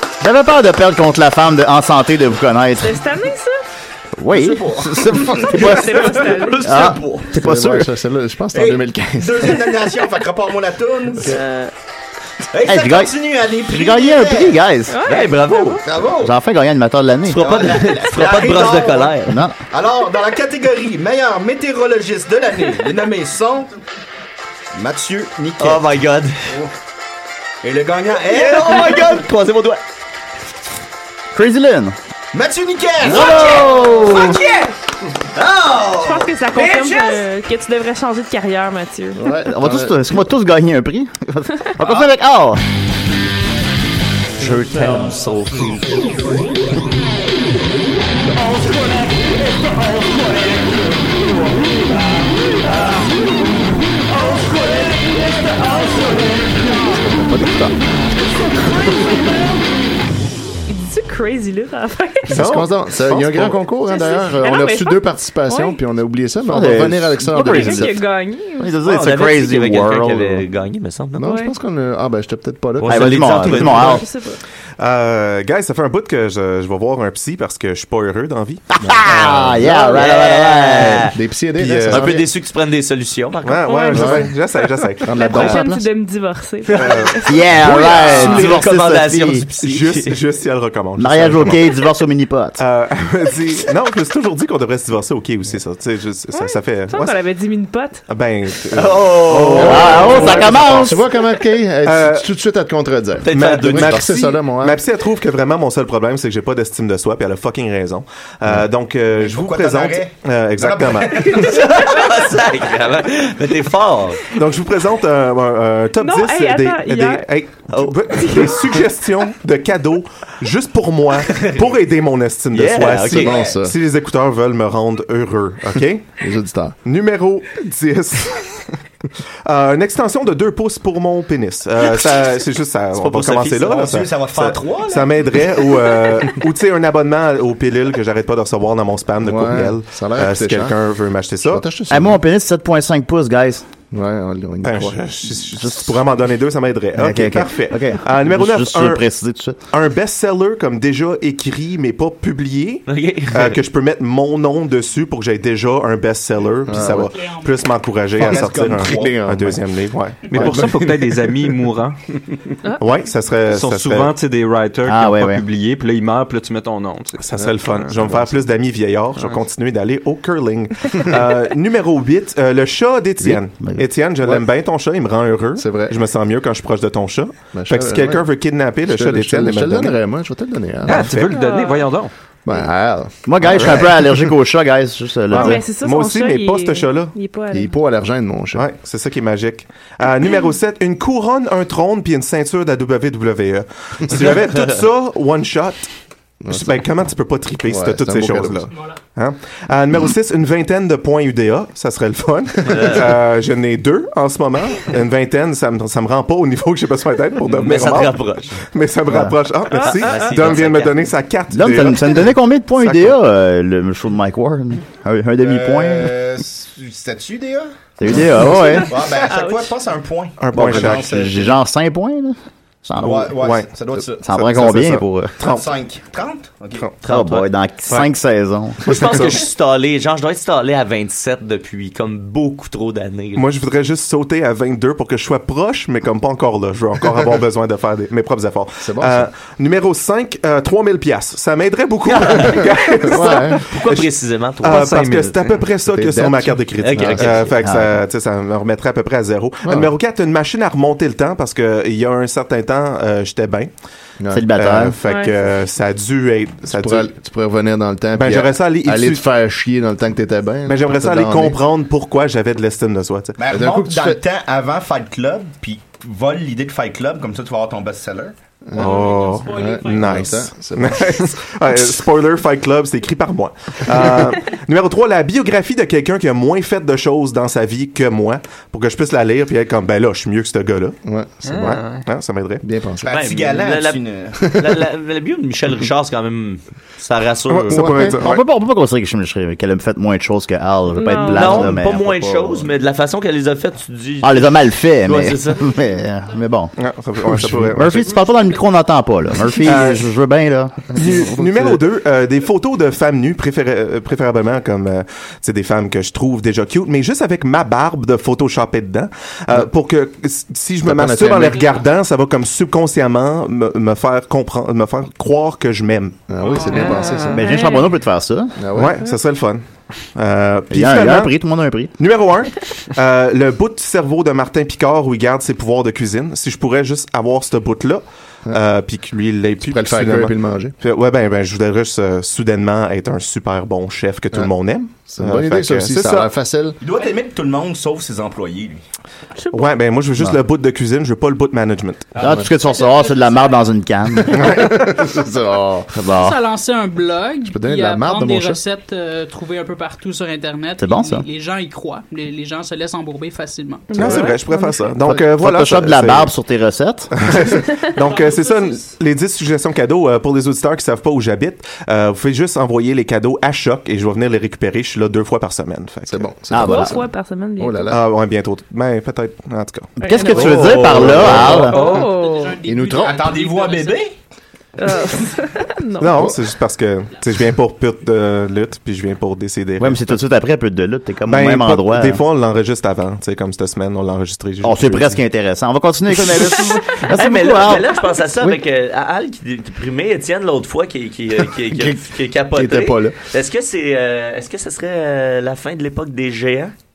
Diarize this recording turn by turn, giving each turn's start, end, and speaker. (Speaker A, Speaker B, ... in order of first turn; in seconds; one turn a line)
Speaker A: 0.2-3.0
Speaker B: 2.8-3.6
Speaker A: 4.2-5.9
Speaker C: 4.3-6.9
Speaker B: 5.4-6.8
Speaker D: 5.7-7.3
Speaker A: 6.6-7.9
Speaker E: 7.3-9.5
Speaker C: 8.5-11.3
Speaker D: 11.3-11.7
Speaker C: 12.5-14.6
Speaker A: 12.7-13.1
Speaker A: 13.6-15.0
Speaker B: 14.9-15.8
Speaker D: 15.1-15.8
Speaker C: 15.8-16.3
Speaker A: 16.2-17.6
Speaker D: 17.3-19.4
Speaker C: 17.3-19.1
Speaker A: 19.3-19.6
Speaker C: 19.7-23.8
Speaker C: 24.7-25.9
Speaker D: 25.6-26.5
Speaker C: 27.6-29.2
Speaker D: 28.3-29.8
Speaker A: 31.3-32.0
Speaker C: 32.3-34.7
Speaker A: 33.0-34.4
Speaker D: 33.1-33.7
Speaker C: 35.4-37.2
Speaker B: 36.0-39.4
Speaker E: 39.1-40.0
Speaker A: 39.5-42.6
Speaker D: 44.4-45.9
Speaker E: 56.6-57.8
Speaker B: 58.5-59.4
Speaker B: 60.7-62.4
Speaker E: 62.3-68.0
Speaker F: 62.3-63.6
Speaker B: 63.9-65.8
Speaker A: 66.5-68.0
Speaker B: 67.3-68.8
Speaker A: 68.6-70.5
Speaker D: 68.8-71.3
Speaker E: 71.2-73.4
Speaker B: 71.2-71.5
Speaker D: 72.8-74.0
Speaker A: 72.8-74.1
Speaker B: 73.5-74.4
Speaker F: 74.8-78.6
Speaker A: 78.7-81.1
Speaker E: 78.8-80.0
Speaker D: 79.9-81.2
Speaker E: 81.1-82.3
Speaker F: 81.6-82.2
Speaker D: 81.9-83.8
Speaker F: 83.4-85.6
Speaker B: 83.7-84.4
Speaker E: 83.9-84.4
Speaker E: 85.0-85.8
Speaker B: 85.1-87.4
Speaker F: 86.8-87.2
Speaker A: 87.2-89.5
Speaker D: 87.5-90.2
Speaker F: 89.6-91.7
Speaker A: 91.0-92.6
Speaker F: 92.6-97.2
Speaker B: 96.3-98.1
Speaker F: 98.1-100.9
Speaker D: 98.7-100.5
Speaker E: 99.5-104.8
Speaker A: 99.6-101.0
Speaker F: 101.8-102.3
Speaker D: 103.2-104.1
Speaker F: 103.3-111.4
Speaker C: 109.2-112.1
Speaker D: 111.2-114.3
Speaker F: 114.3-126.1
Speaker B: 116.0-117.3
Speaker D: 117.7-118.0
Speaker B: 118.1-118.8
Speaker D: 121.3-121.6
Speaker D: 122.5-123.4
Speaker E: 123.1-123.8
Speaker E: 126.2-126.8
Speaker F: 126.8-128.7
Speaker F: 129.4-141.7
Speaker D: 133.0-133.8
Speaker C: 133.5-135.8
Speaker E: 139.2-140.8
Speaker E: 141.4-142.2
Speaker A: 141.9-143.7
Speaker E: 143.9-145.0
Speaker F: 144.6-149.1
Speaker A: 147.0-149.6
Speaker F: 149.7-160.6
Speaker D: 152.9-153.6
Speaker E: 156.7-157.1
Speaker G: 157.0-157.7
Speaker E: 158.2-161.3
Speaker C: 158.2-159.2
Speaker H: 160.3-162.0
Speaker F: 162.8-164.2
Speaker H: 163.5-167.9
Speaker A: 164.8-165.4
Speaker F: 167.2-180.0
Speaker E: 167.4-168.5
Speaker A: 173.2-173.9
Speaker E: 175.6-176.0
Speaker E: 177.5-181.1
Speaker H: 180.8-182.1
Speaker F: 180.9-181.3
Speaker B: 181.1-182.0
Speaker E: 182.4-183.3
Speaker A: 183.2-185.6
Speaker F: 183.6-183.9
Speaker F: 185.3-187.2
Speaker B: 185.3-187.7
Speaker E: 187.5-188.7
Speaker F: 188.5-195.9
Speaker E: 196.4-196.9
Speaker F: 196.5-213.2
Speaker E: 197.6-198.7
Speaker G: 198.7-199.0
Speaker D: 202.7-203.1
Speaker D: 207.5-208.6
Speaker A: 209.1-209.3
Speaker B: 209.7-210.6
Speaker D: 209.8-211.0
Speaker A: 211.5-216.2
Speaker C: 215.4-221.6
Speaker A: 218.0-218.9
Speaker B: 218.5-219.7
Speaker F: 220.4-221.2
Speaker A: 220.5-223.4
Speaker C: 223.0-224.7
Speaker F: 223.4-223.8
Speaker A: 224.2-225.4
Speaker F: 224.3-225.7
Speaker C: 225.4-226.9
Speaker D: 227.0-227.5
Speaker A: 227.0-229.1
Speaker F: 227.9-228.1
Speaker F: 228.8-229.5
Speaker D: 228.8-233.5
Speaker F: 233.4-253.7
Speaker E: 238.8-239.3
Speaker D: 242.1-245.0
Speaker E: 242.4-243.6
Speaker H: 244.7-245.5
Speaker E: 245.9-247.5
Speaker D: 246.8-247.5
Speaker A: 247.4-248.0
Speaker E: 249.6-249.9
Speaker E: 254.2-254.8
Speaker A: 254.3-255.0
Speaker F: 254.5-257.1
Speaker B: 255.0-255.4
Speaker E: 256.6-261.6
Speaker F: 258.2-259.2
Speaker F: 260.7-263.4
Speaker C: 263.4-268.4
Speaker E: 263.5-264.2
Speaker E: 268.7-271.3
Speaker F: 268.8-281.0
Speaker G: 268.8-270.1
Speaker E: 281.0-281.8
Speaker H: 281.4-282.1
Speaker F: 281.5-282.6
Speaker E: 282.6-283.1
Speaker C: 283.0-284.4
Speaker D: 283.1-287.9
Speaker F: 287.5-288.4
Speaker E: 287.7-288.3
Speaker A: 288.1-292.6
Speaker B: 290.9-291.7
Speaker D: 291.3-295.7
Speaker A: 294.2-296.8
Speaker F: 296.8-298.1
Speaker E: 297.3-297.9
Speaker A: 297.7-300.8
Speaker G: 298.0-298.6
Speaker F: 299.7-300.1
Speaker E: 300.9-301.8
Speaker F: 300.9-316.2
Speaker E: 310.8-311.7
Speaker G: 311.5-311.8
Speaker E: 316.3-317.4
Speaker G: 316.4-317.1
Speaker B: 316.8-317.9
Speaker A: 317.3-318.5
Speaker E: 318.6-319.0
Speaker F: 318.7-321.4
Speaker A: 320.7-321.9
Speaker F: 322.0-336.3
Speaker E: 329.6-330.8
Speaker E: 334.3-336.8
Speaker C: 336.8-338.8
Speaker B: 339.4-339.7
Speaker F: 339.5-342.2
Speaker E: 342.1-342.5
Speaker A: 342.2-344.7
Speaker G: 342.6-343.7
Speaker E: 344.1-345.9
Speaker F: 344.5-344.8
Speaker A: 345.9-346.4
Speaker G: 346.1-354.2
Speaker E: 347.4-348.6
Speaker A: 350.8-351.2
Speaker B: 353.9-354.9
Speaker F: 353.9-356.3
Speaker A: 355.1-357.1
Speaker F: 357.1-366.3
Speaker G: 358.0-358.9
Speaker E: 366.1-368.1
Speaker A: 366.5-367.0
Speaker B: 366.6-367.9
Speaker F: 367.9-370.0
Speaker B: 370.0-372.6
Speaker A: 370.0-371.8
Speaker H: 370.3-372.1
Speaker G: 371.6-374.1
Speaker E: 372.6-373.2
Speaker C: 373.0-374.1
Speaker B: 374.8-376.3
Speaker F: 376.0-380.2
Speaker E: 376.1-376.4
Speaker A: 379.8-382.2
Speaker F: 381.3-385.2
Speaker A: 384.6-388.6
Speaker D: 386.3-396.7
Speaker E: 392.5-393.2